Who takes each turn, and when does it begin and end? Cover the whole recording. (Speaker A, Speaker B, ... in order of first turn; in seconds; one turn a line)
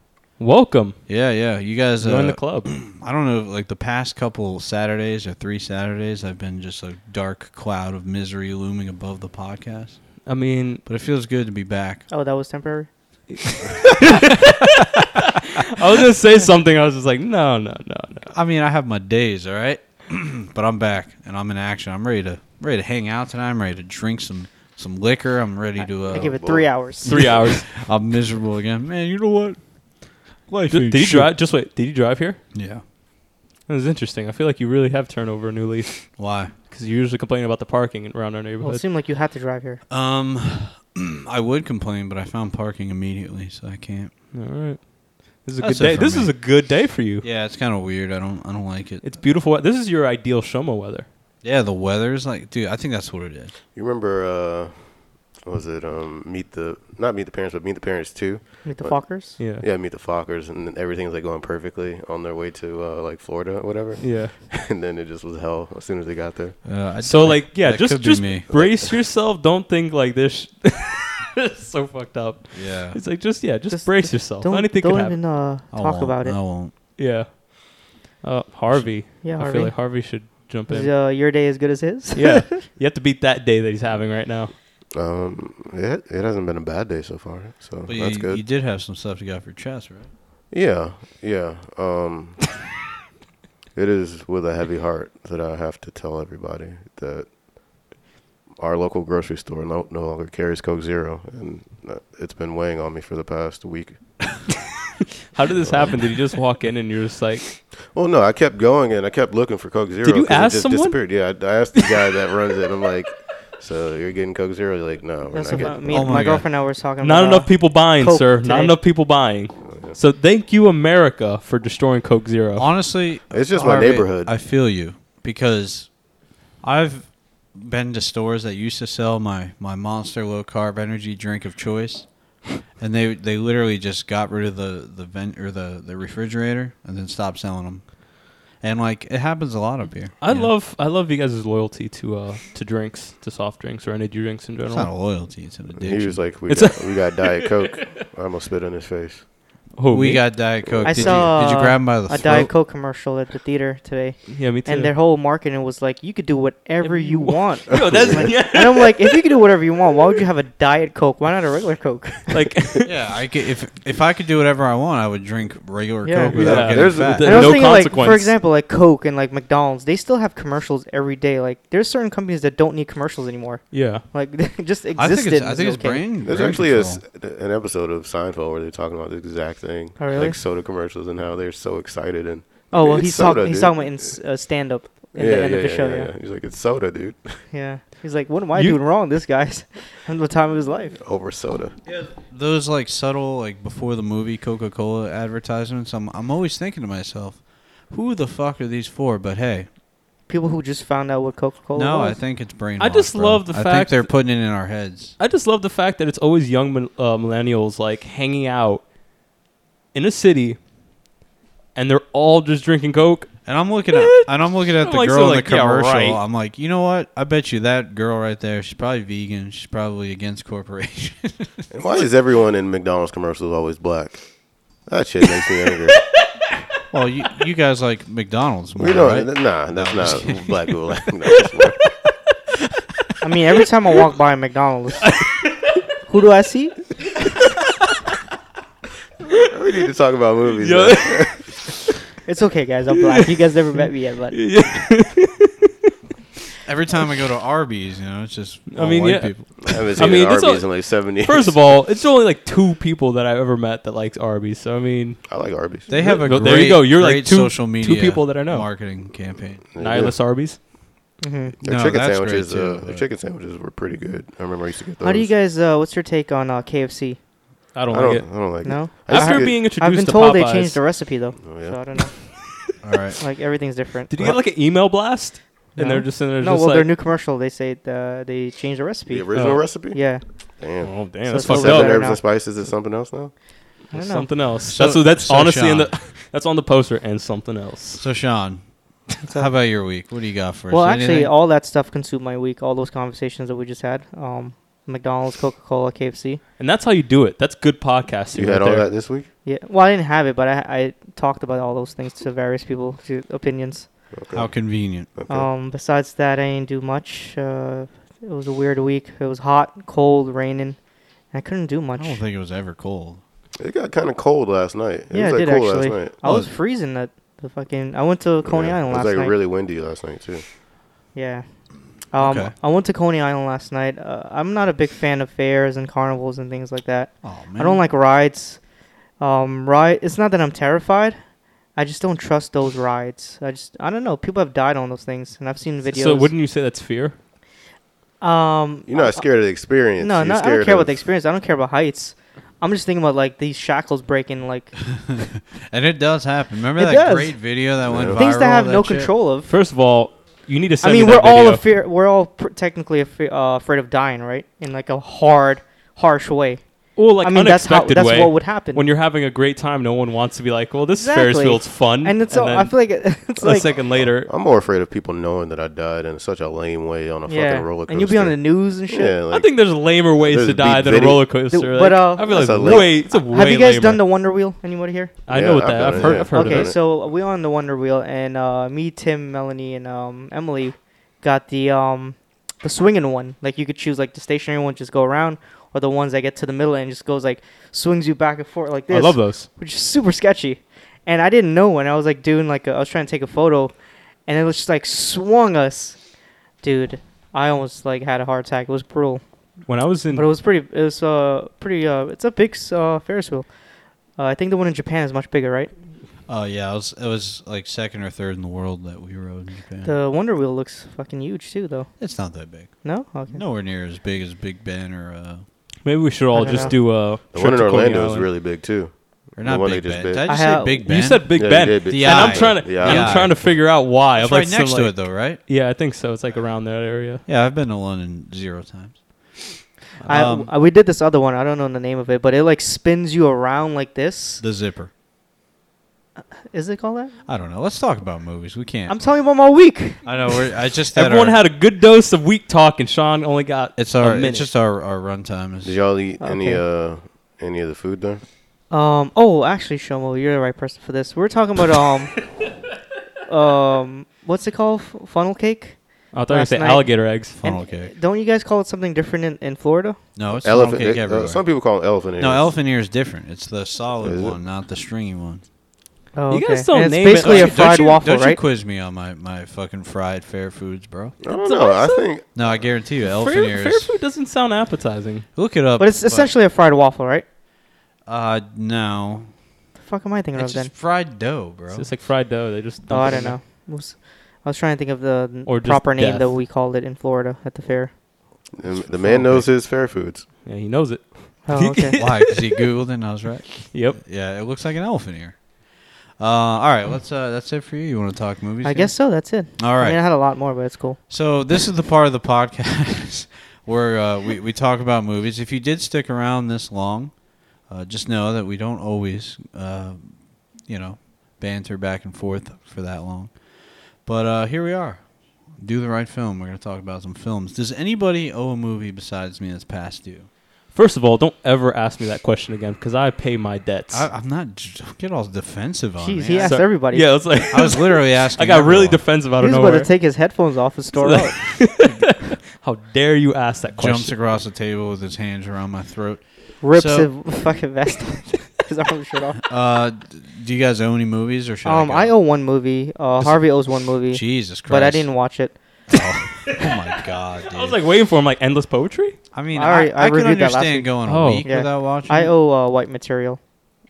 Speaker A: 0.4-1.2
Speaker B: 1.1-10.3
Speaker A: 2.0-2.7
Speaker A: 10.2-10.8
Speaker B: 10.8-12.0
Speaker C: 12.1-12.9
Speaker A: 13.3-18.3
Speaker B: 18.3-29.6
Speaker C: 25.8-27.1
Speaker D: 26.0-26.7
Speaker A: 27.0-27.7
Speaker B: 30.4-31.3
Speaker A: 30.7-32.4
Speaker B: 32.5-32.8
Speaker A: 33.7-38.8
Speaker B: 36.2-36.5
Speaker C: 38.6-39.8
Speaker B: 39.9-44.1
Speaker A: 44.3-47.2
Speaker B: 45.6-49.1
Speaker A: 49.0-51.1
Speaker B: 51.4-53.5
Speaker D: 53.7-66.6
Speaker C: 58.6-59.4
Speaker A: 59.4-59.6
Speaker A: 64.0-64.4
Speaker B: 66.6-68.5
Speaker A: 67.0-75.2
Speaker B: 72.5-73.0
Speaker C: 73.7-76.4
Speaker B: 75.7-76.7
Speaker A: 77.0-80.9
Speaker C: 79.2-82.5
Speaker A: 82.1-84.5
Speaker D: 84.9-88.4
Speaker B: 87.9-90.1
Speaker D: 90.5-92.5
Speaker D: 93.7-97.9
Speaker D: 98.6-104.4
Speaker A: 105.3-107.6
Speaker D: 105.6-106.0
Speaker D: 107.9-116.0
Speaker A: 110.0-111.2
Speaker A: 111.7-112.2
Speaker C: 115.3-118.8
Speaker A: 115.5-122.7
Speaker B: 115.9-116.4
Speaker D: 119.6-120.0
Speaker B: 122.6-125.9
Speaker D: 123.3-124.3
Speaker B: 126.6-140.5
Speaker A: 140.2-144.9
Speaker B: 144.6-146.2
Speaker D: 145.7-149.3
Speaker A: 146.5-147.9
Speaker A: 149.8-150.5
Speaker B: 149.9-152.5
Speaker D: 150.6-151.2
Speaker C: 150.8-162.6
Speaker A: 154.3-154.9
Speaker A: 156.8-159.2
Speaker D: 157.7-158.3
Speaker A: 162.3-162.9
Speaker B: 162.8-167.6
Speaker C: 166.0-176.0
Speaker A: 166.3-168.3
Speaker D: 166.4-167.8
Speaker A: 173.7-174.0
Speaker B: 174.9-177.0
Speaker D: 176.2-184.1
Speaker C: 180.0-180.4
Speaker C: 182.7-186.1
Speaker D: 185.1-187.4
Speaker C: 187.5-191.0
Speaker D: 191.0-191.8
Speaker B: 191.9-199.7
Speaker C: 200.3-202.2
Speaker B: 201.7-205.2
Speaker A: 202.8-204.2
Speaker A: 205.2-208.8
Speaker A: 209.9-210.6
Speaker A: 211.7-216.2
Speaker B: 213.4-221.7
Speaker D: 221.7-226.0
Speaker B: 226.9-230.9
Speaker D: 228.8-231.9
Speaker C: 233.2-235.1
Speaker C: 236.1-236.8
Speaker D: 239.4-241.5
Speaker A: 240.5-241.8
Speaker C: 242.2-244.4
Speaker A: 243.0-245.7
Speaker B: 246.6-249.8
Speaker A: 248.7-255.2
Speaker D: 249.6-251.6
Speaker D: 255.3-256.2
Speaker B: 255.9-259.6
Speaker A: 255.9-258.8
Speaker D: 259.7-260.3
Speaker A: 259.8-260.6
Speaker C: 261.2-261.5
Speaker D: 261.6-265.3
Speaker B: 261.6-263.1
Speaker C: 265.0-267.2
Speaker A: 267.7-270.8
Speaker D: 267.9-269.6
Speaker C: 268.6-272.1
Speaker D: 271.4-271.8
Speaker B: 272.8-273.2
Speaker C: 273.2-274.4
Speaker A: 274.1-276.9
Speaker C: 275.8-280.2
Speaker D: 279.1-283.3
Speaker A: 279.3-279.6
Speaker A: 280.8-282.0
Speaker C: 281.2-282.2
Speaker A: 283.9-288.0
Speaker C: 283.9-284.3
Speaker B: 284.6-285.9
Speaker B: 287.9-291.3
Speaker C: 289.2-290.0
Speaker C: 290.7-296.4
Speaker A: 296.6-298.9
Speaker D: 298.3-299.3
Speaker C: 299.4-304.0
Speaker D: 304.1-305.5
Speaker B: 304.3-305.1
Speaker C: 305.3-310.8
Speaker C: 311.3-312.2
Speaker B: 311.9-313.2
Speaker D: 313.6-316.2
Speaker C: 315.1-319.3
Speaker B: 316.2-316.5
Speaker D: 318.4-320.4
Speaker C: 321.1-328.6
Speaker B: 322.2-322.5
Speaker B: 327.2-327.8
Speaker C: 329.2-331.2
Speaker C: 331.7-336.3
Speaker A: 335.9-337.2
Speaker C: 338.2-339.2
Speaker D: 338.9-341.0
Speaker C: 340.0-344.8
Speaker B: 344.9-349.1
Speaker C: 346.8-347.6
Speaker D: 347.8-348.2
Speaker C: 348.1-349.5
Speaker A: 349.5-351.6
Speaker C: 350.8-358.9
Speaker A: 356.9-364.3
Speaker C: 361.0-363.7
Speaker D: 363.4-371.3
Speaker C: 367.2-369.1
Speaker A: 369.3-374.0
Speaker C: 371.5-375.1
Speaker D: 372.2-372.9
Speaker A: 375.3-376.7
Speaker D: 375.3-376.8
Speaker C: 375.9-393.7
Speaker A: 388.9-389.5
Speaker C: 394.2-396.0
Speaker C: 396.6-399.2
Speaker A: 399.7-400.3
Speaker C: 400.1-403.5
Speaker C: 404.1-405.7
Speaker B: 406.3-409.9
Speaker C: 409.8-413.4
Speaker B: 412.0-415.4
Speaker A: 415.8-418.3
Speaker C: 416.3-416.7
Speaker D: 416.5-420.2
Speaker B: 419.4-423.6
Speaker C: 420.3-420.9
Speaker A: 420.8-427.2
Speaker D: 421.3-423.3
Speaker B: 424.1-425.4
Speaker B: 427.2-430.5
Speaker C: 430.1-434.4
Speaker B: 434.4-434.9
Speaker C: 436.2-437.1
Speaker B: 437.2-439.1
Speaker C: 438.9-440.0
Speaker B: 440.0-441.4
Speaker A: 440.9-444.5
Speaker B: 443.8-445.8
Speaker D: 445.6-448.2
Speaker C: 446.2-446.6
Speaker C: 448.7-452.2
Speaker C: 453.2-460.0
Speaker A: 456.1-457.3
Speaker B: 457.4-457.9
Speaker B: 460.1-465.4
Speaker D: 460.3-462.5
Speaker D: 464.0-464.4
Speaker C: 466.1-468.4
Speaker A: 466.3-467.6
Speaker B: 467.1-471.1
Speaker D: 471.2-472.6
Speaker C: 471.4-472.0
Speaker B: 472.3-473.9
Speaker A: 473.0-475.3
Speaker B: 475.3-476.3
Speaker C: 475.8-477.2
Speaker B: 478.1-479.3
Speaker C: 479.8-480.7
Speaker B: 480.4-481.9
Speaker A: 481.7-483.4
Speaker C: 482.9-487.9
Speaker A: 485.4-486.3
Speaker D: 488.5-490.2
Speaker B: 488.7-489.5
Speaker A: 490.4-492.7
Speaker C: 491.4-492.0
Speaker B: 491.9-495.6
Speaker A: 493.7-494.0
Speaker B: 496.2-500.1
Speaker C: 498.6-501.0
Speaker B: 501.1-513.4
Speaker B: 514.0-515.0
Speaker B: 515.5-520.3
Speaker A: 520.7-524.1
Speaker B: 523.9-526.6
Speaker C: 526.0-527.2
Speaker A: 526.3-529.9
Speaker B: 527.4-529.1
Speaker C: 529.4-531.8
Speaker A: 531.0-534.2
Speaker B: 533.8-537.1
Speaker C: 536.6-539.4
Speaker B: 539.4-542.1
Speaker C: 541.6-545.6
Speaker B: 543.2-545.1
Speaker B: 545.9-547.8
Speaker A: 547.5-549.2
Speaker B: 549.3-552.3
Speaker C: 549.5-553.4
Speaker A: 551.0-551.5